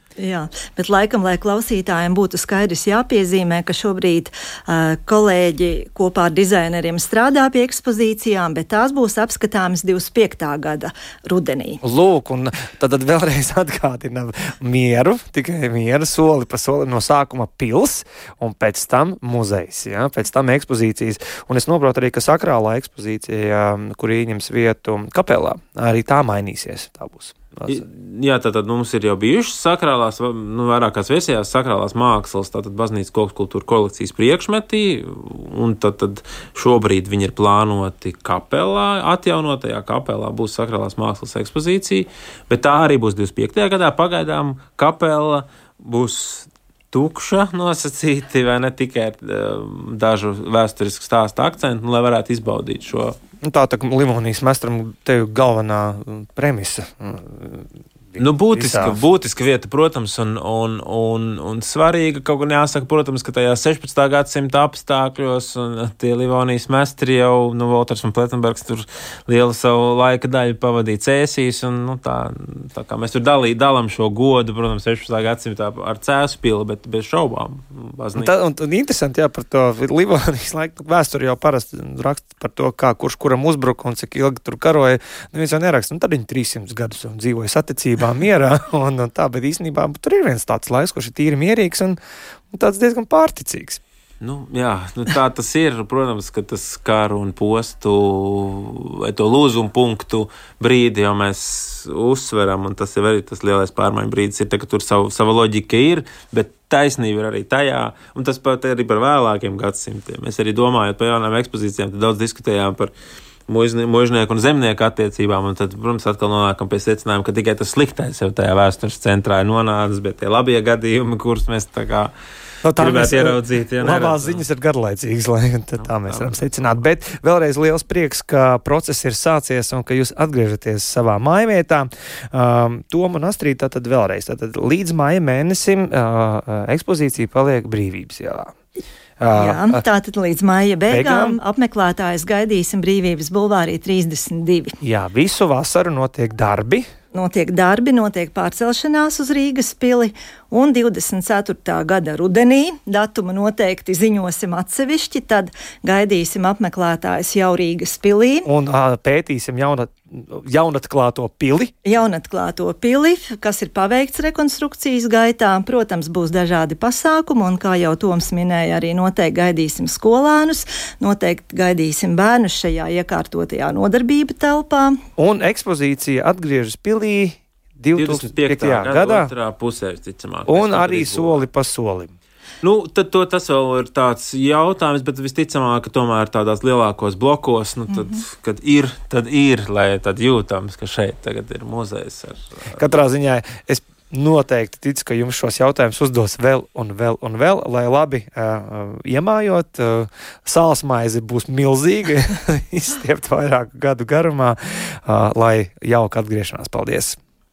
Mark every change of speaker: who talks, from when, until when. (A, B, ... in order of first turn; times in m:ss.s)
0:00.2-0:11.8 A
0:11.8-0:27.8 B
0:27.7-0:53.2 C
0:53.4-0:59.0 B
0:58.2-1:18.3 C
1:18.2-1:32.0 B
1:32.5-1:33.8 B
1:34.2-1:52.9 C
1:53.5-2:02.1 C
2:02.6-2:18.6 B
2:02.8-2:04.4 C
2:06.1-2:06.4 C
2:19.2-2:19.8 B
2:19.4-2:24.8 A
2:20.9-2:21.4 B
2:24.8-2:26.9 B
2:27.1-2:38.5 A
2:38.4-2:41.7 B
2:41.8-2:55.0 A
2:55.2-2:59.3 B
2:58.0-3:01.4 C
3:00.5-3:02.1 B
3:02.6-3:12.8 C
3:07.9-3:08.2 A
3:12.7-3:27.2 B